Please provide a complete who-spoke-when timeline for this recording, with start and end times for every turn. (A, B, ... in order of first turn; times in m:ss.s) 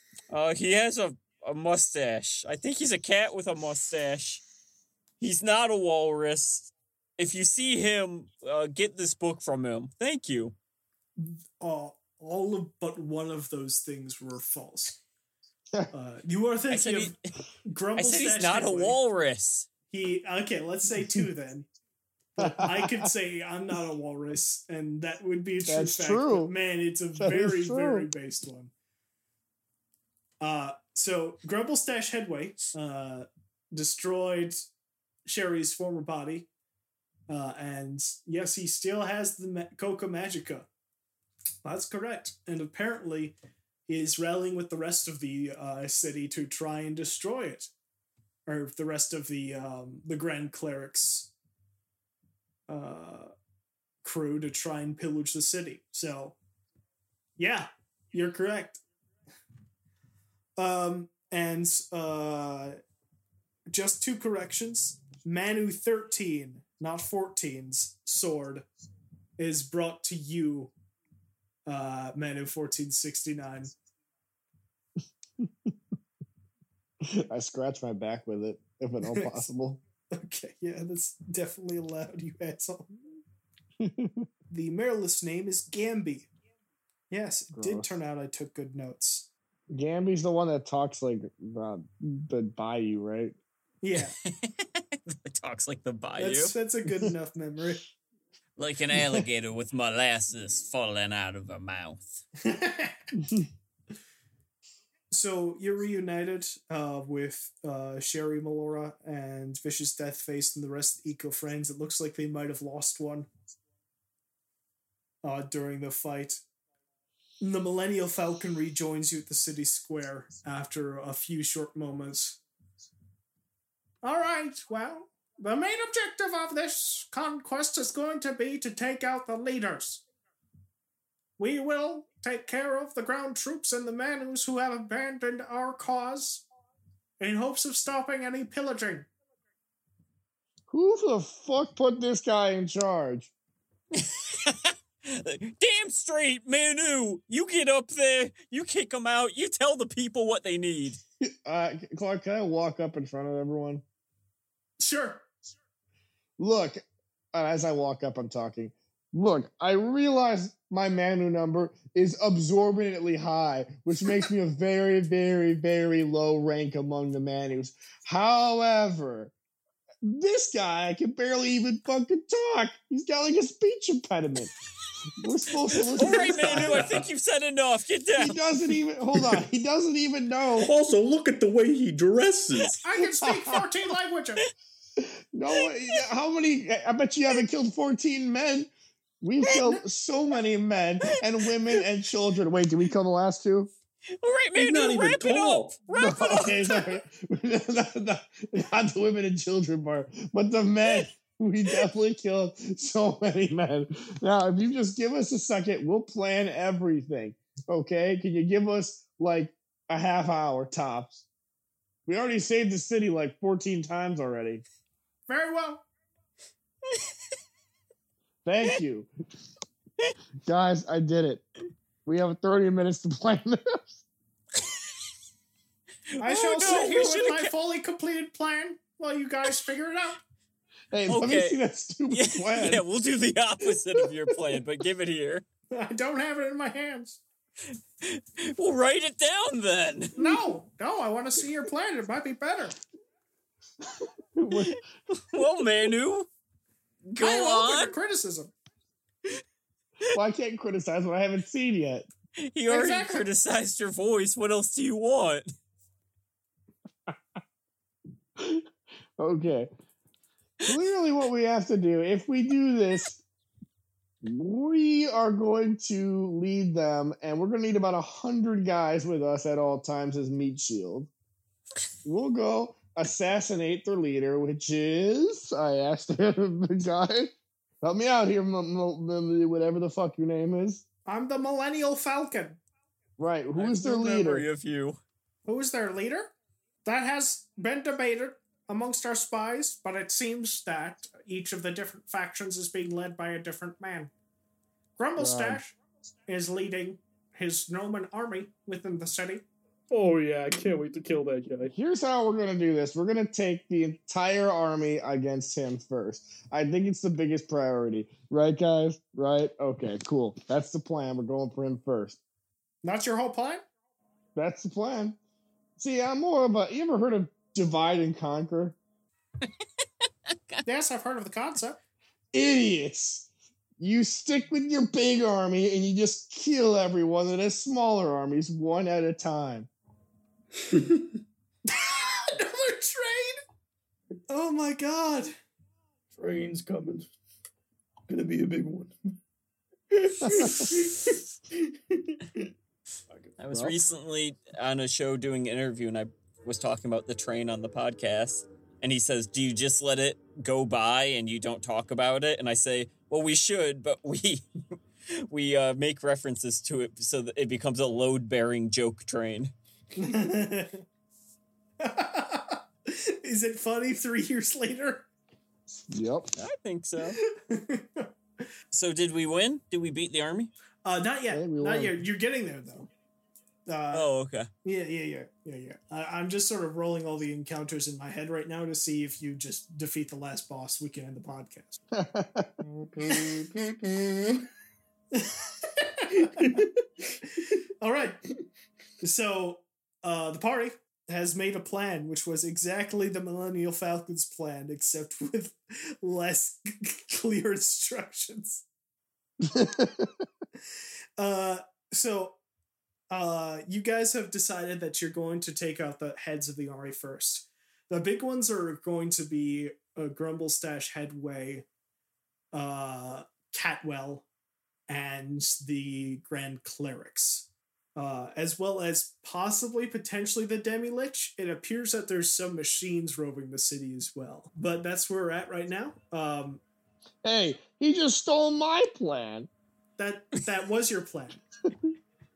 0:00.3-0:04.4 A
0:05.2-0:10.5 A
0:11.2-0:15.0 B
0:15.9-0:17.1 B
0:16.7-0:17.1 A
0:17.7-0:19.0 B
0:18.0-0:19.7 A
0:19.9-0:21.7 B
0:22.4-0:28.7 B
0:22.4-0:23.1 C
0:25.6-0:26.5 C
0:27.2-0:28.1 C
0:30.4-0:34.6 B
0:35.2-0:36.5 B
0:37.3-0:40.7 B
0:41.6-0:43.4 B
0:43.9-0:47.7 B
0:48.4-0:51.3 B
0:52.7-0:53.3 B
0:54.0-0:56.3 B
0:57.4-0:58.8 B
1:00.6-1:02.8 B
1:03.7-1:08.6 B
1:09.4-1:10.7 B
1:11.7-1:13.7 B
1:17.0-1:19.8 C
1:19.0-1:19.4 B
1:20.1-1:22.9 B
1:23.8-1:24.2 C
1:24.5-1:26.3 B
1:27.1-1:29.3 B
1:27.5-1:27.9 C
1:29.7-1:33.4 C
1:33.8-1:34.1 B
1:34.0-1:36.5 A
1:36.2-1:37.8 B
1:38.6-1:42.2 A
1:42.4-1:43.1 B
1:45.1-1:53.3 B
1:55.2-1:56.4 B
1:57.4-2:02.4 B
2:04.0-2:10.0 B
2:11.4-2:16.4 B
2:17.2-2:19.1 B
2:20.7-2:23.3 C
2:23.9-2:31.0 A
2:31.2-2:33.8 C
2:34.8-2:35.2 B
2:36.4-2:49.3 C
2:50.0-2:54.5 C
2:55.2-2:56.8 C
2:55.7-2:58.4 A
2:56.5-2:57.0 D
2:58.2-3:00.7 C
3:00.6-3:02.8 D
3:02.8-3:04.4 B
3:05.0-3:13.7 C
3:14.2-3:17.0 A
3:14.6-3:15.8 D
3:15.9-3:31.2 C
3:32.1-3:34.6 C
3:35.3-3:35.8 B
3:38.4-3:39.1 C
3:40.4-3:41.5 C
3:42.0-3:44.0 C
3:46.1-3:47.5 A
3:46.2-3:50.2 B
3:50.9-3:52.8 C
3:51.1-3:51.6 A
3:52.1-3:55.4 A
3:55.7-3:57.2 B
3:58.0-4:00.4 A
4:00.2-4:02.8 B
4:04.3-4:04.8 C
4:05.3-4:06.3 A
4:07.1-4:08.0 A
4:07.2-4:08.5 B
4:10.1-4:12.1 C
4:12.4-4:15.5 A
4:12.7-4:13.2 B
4:18.4-4:18.6 C
4:19.2-4:19.7 C
4:20.6-4:23.2 C
4:24.2-4:31.1 C
4:32.0-4:40.8 C
4:41.1-4:42.6 B
4:43.2-4:44.4 C
4:43.6-4:45.0 A
4:45.4-4:46.3 B
4:46.8-4:54.1 B
4:55.0-4:55.8 B
4:55.2-4:55.6 C
4:56.3-4:59.4 B
4:59.9-5:01.7 E
5:01.7-5:12.2 C
5:12.8-5:13.6 B
5:14.4-5:15.2 C
5:15.8-5:18.8 C
5:20.3-5:20.6 A
5:20.6-5:21.8 B
5:22.3-5:23.3 C
5:23.8-5:29.7 C
5:30.7-5:31.0 D
5:31.7-5:33.4 B
5:34.3-5:35.3 B
5:36.1-5:37.1 E
5:38.1-5:39.0 E
5:39.9-5:42.5 E
5:43.4-5:54.4 A
5:43.5-5:43.8 C
5:55.2-5:59.5 A
6:00.0-6:00.8 B
6:01.8-6:05.1 B
6:05.8-6:06.3 C
6:06.4-6:07.2 A
6:07.2-6:08.1 B
6:08.7-6:10.5 A
6:10.8-6:12.9 B
6:11.3-6:12.0 C
6:13.7-6:14.1 B
6:13.9-6:14.5 A
6:14.6-6:21.8 B
6:21.9-6:22.5 C
6:22.9-6:24.4 E
6:23.1-6:23.4 B
6:25.1-6:26.3 B
6:26.2-6:27.2 E
6:27.8-6:28.3 B
6:29.0-6:38.6 B
6:39.4-6:40.1 C
6:41.2-6:42.4 B
6:43.1-6:51.6 B
6:52.5-6:54.2 B
6:54.9-7:06.6 B
7:07.2-7:09.5 C
7:10.0-7:11.4 B